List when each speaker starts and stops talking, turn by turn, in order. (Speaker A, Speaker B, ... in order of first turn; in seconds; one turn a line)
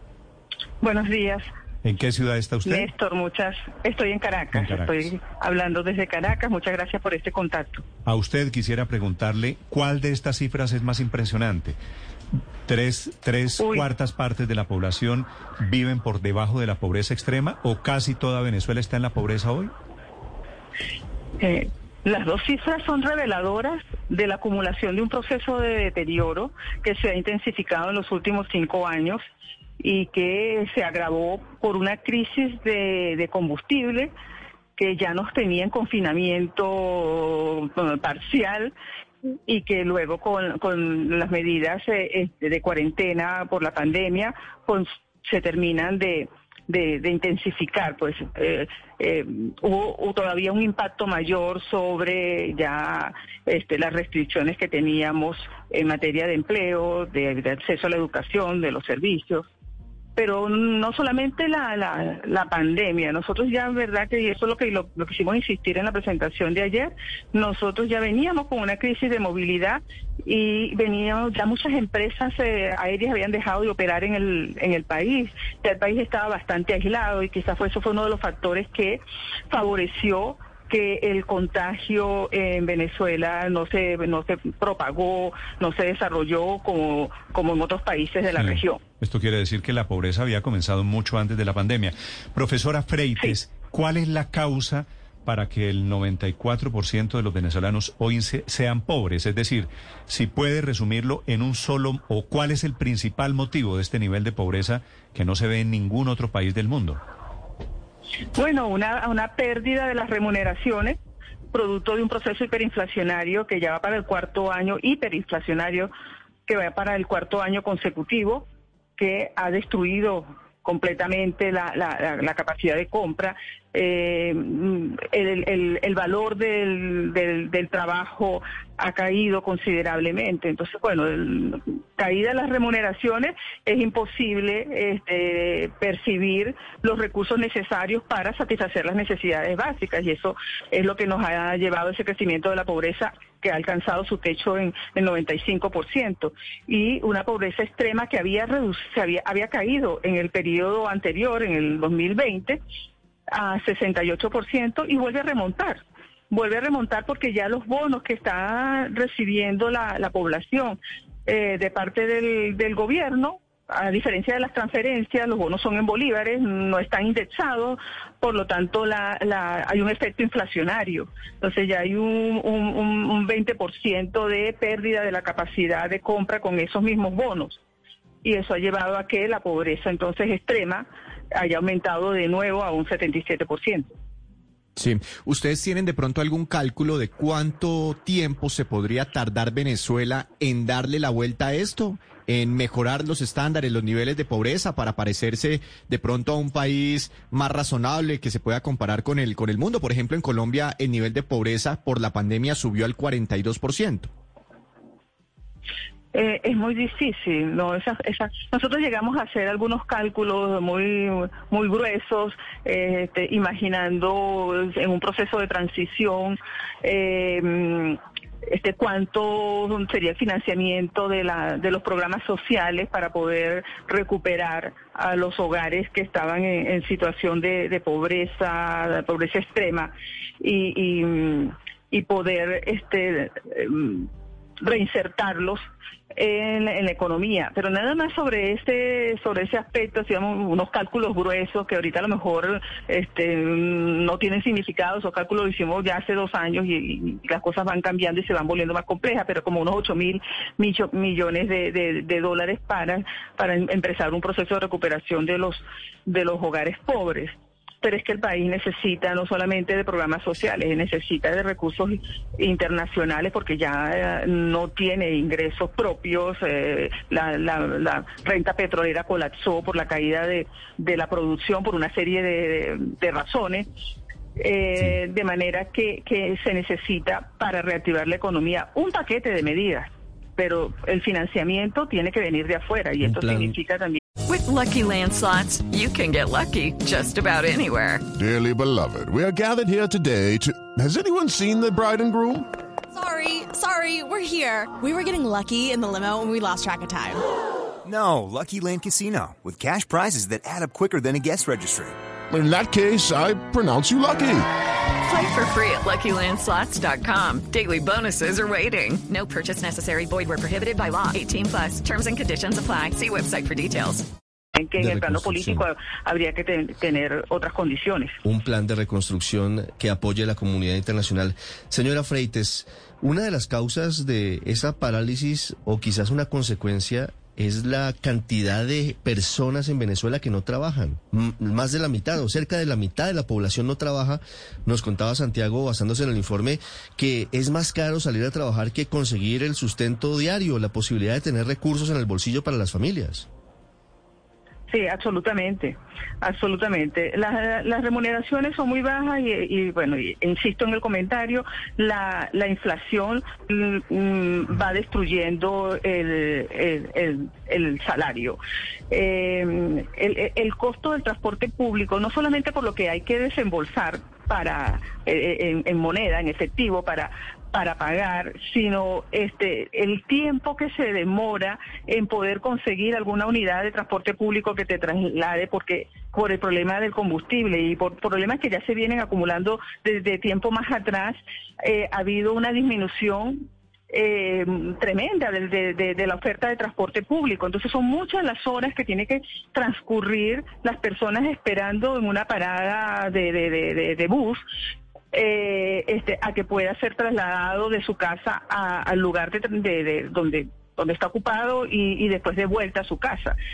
Speaker A: 0.8-1.5
Speaker B: 1.8-2.9
Speaker A: 2.6-7.8
Speaker B: 4.5-5.1
Speaker B: 8.1-11.8
Speaker B: 12.7-19.7
Speaker A: 13.6-13.8
Speaker A: 21.4-29.2
Speaker A: 29.8-34.1
Speaker A: 34.8-38.7
Speaker A: 39.5-59.5
Speaker A: 60.1-88.8
Speaker B: 88.4-107.0
Speaker A: 108.3-111.0
Speaker A: 111.5-115.9
Speaker A: 116.5-118.4
Speaker A: 119.0-152.6
Speaker A: 153.3-177.6
Speaker A: 178.2-183.9
Speaker C: 184.8-204.1
Speaker A: 206.1-234.1
Speaker A: 234.6-235.6
Speaker A: 236.1-273.7
Speaker A: 274.4-284.0
Speaker D: 283.0-283.5
Speaker E: 284.3-288.0
Speaker F: 288.1-292.5
Speaker G: 292.9-297.2
Speaker H: 297.8-301.9
Speaker F: 302.3-304.5
Speaker E: 305.1-314.0
Speaker A: 314.5-318.2
Speaker D: 314.8-315.7
Speaker D: 318.2-343.2
Speaker A: 344.7-394.4
Speaker A: 395.1-403.4